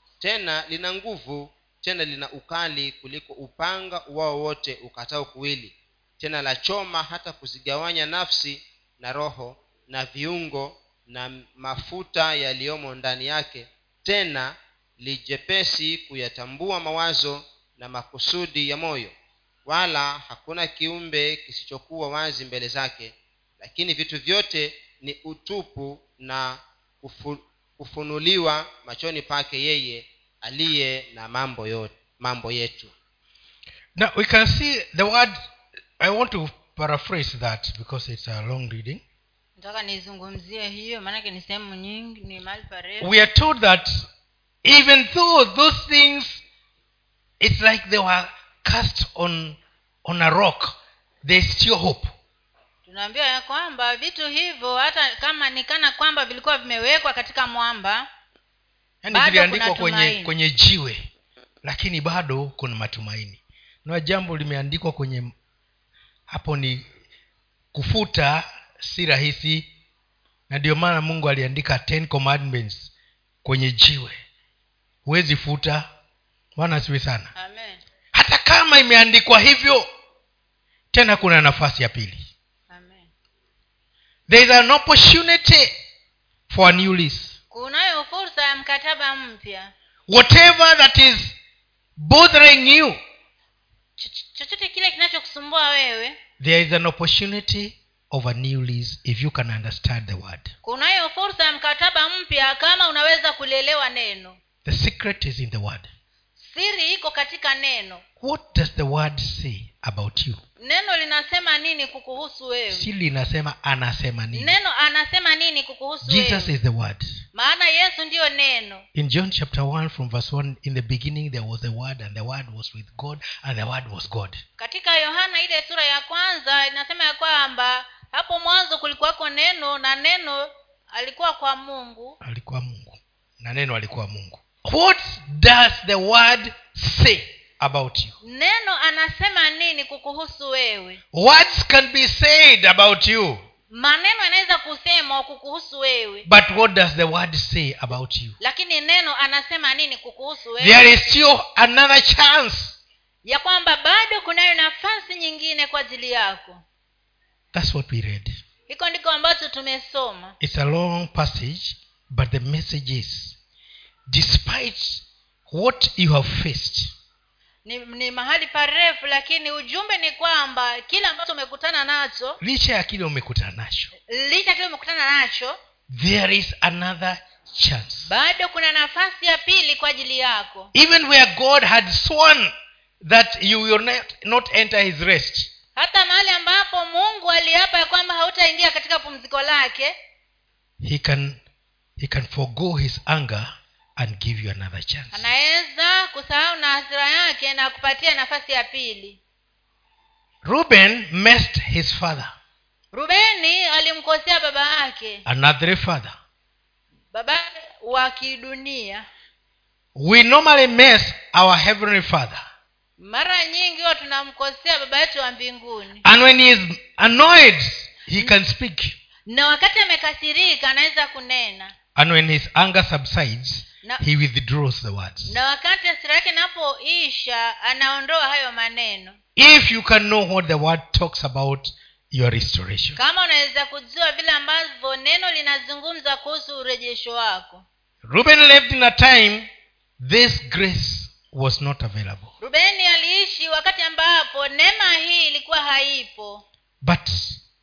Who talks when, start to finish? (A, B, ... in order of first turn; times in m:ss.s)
0:00.2-0:19.1 A
0:19.6-0:32.9 A
0:34.0-0:35.4 B
0:36.0-0:39.0 B
0:39.6-0:43.1 C
0:43.0-0:44.1 B
0:44.6-0:46.4 B
0:47.4-0:52.1 B
0:52.8-0:58.1 C
0:59.0-1:01.1 B
0:59.1-1:00.3 C
1:01.6-1:05.3 B
1:06.3-1:06.8 B
1:07.7-1:09.7 B
1:10.5-1:12.9 B
1:13.4-1:14.2 B
1:15.0-1:15.9 B
1:16.6-1:17.3 B
1:17.3-1:17.8 C
1:18.1-1:19.9 B
1:20.9-1:22.3 B
1:22.7-1:23.1 C
1:24.3-1:25.7 B
1:26.5-1:27.4 B
1:27.5-1:29.7 C
1:30.1-1:31.4 B
1:32.0-1:33.0 B
1:34.0-1:36.2 C
1:36.4-1:40.5 B
1:40.6-1:44.4 C
1:44.6-1:45.9 B
1:46.4-1:48.0 C
1:48.2-1:50.4 B
1:50.6-1:52.9 C
1:52.7-1:54.6 B
1:54.3-1:56.6 C
1:56.0-1:57.2 B
1:57.3-1:58.8 C
1:58.9-2:04.4 B
2:04.6-2:12.2 C
2:12.2-2:18.2 B
2:18.2-2:21.0 C
2:21.1-2:23.4 B
2:23.7-2:26.3 C
2:26.2-2:28.4 B
2:28.4-2:30.8 C
2:30.6-2:32.8 B
2:33.2-2:36.6 C
2:37.5-2:38.4 B
2:38.7-2:40.4 C
2:40.4-2:43.4 B
2:44.1-2:46.9 B
2:47.6-2:52.4 C
2:52.4-2:53.9 B
2:54.0-2:55.6 C
2:55.9-2:58.1 B
2:58.0-3:00.7 C
3:00.7-3:05.5 B
3:05.8-3:09.9 C
3:10.8-3:11.4 B
3:12.0-3:15.3 B
3:15.1-3:19.2 C
3:20.4-3:22.3 B
3:22.9-3:25.2 C
3:25.2-3:26.2 B
3:27.1-3:29.1 C
3:29.9-3:32.4 B
3:33.0-3:36.0 C
3:36.0-3:39.0 B
3:39.3-3:41.7 C
3:42.0-3:45.3 B
3:45.3-3:49.2 C
3:49.4-3:53.0 B
3:53.0-3:57.6 C
3:58.0-4:02.3 B
4:02.4-4:06.4 C
4:06.8-4:07.4 B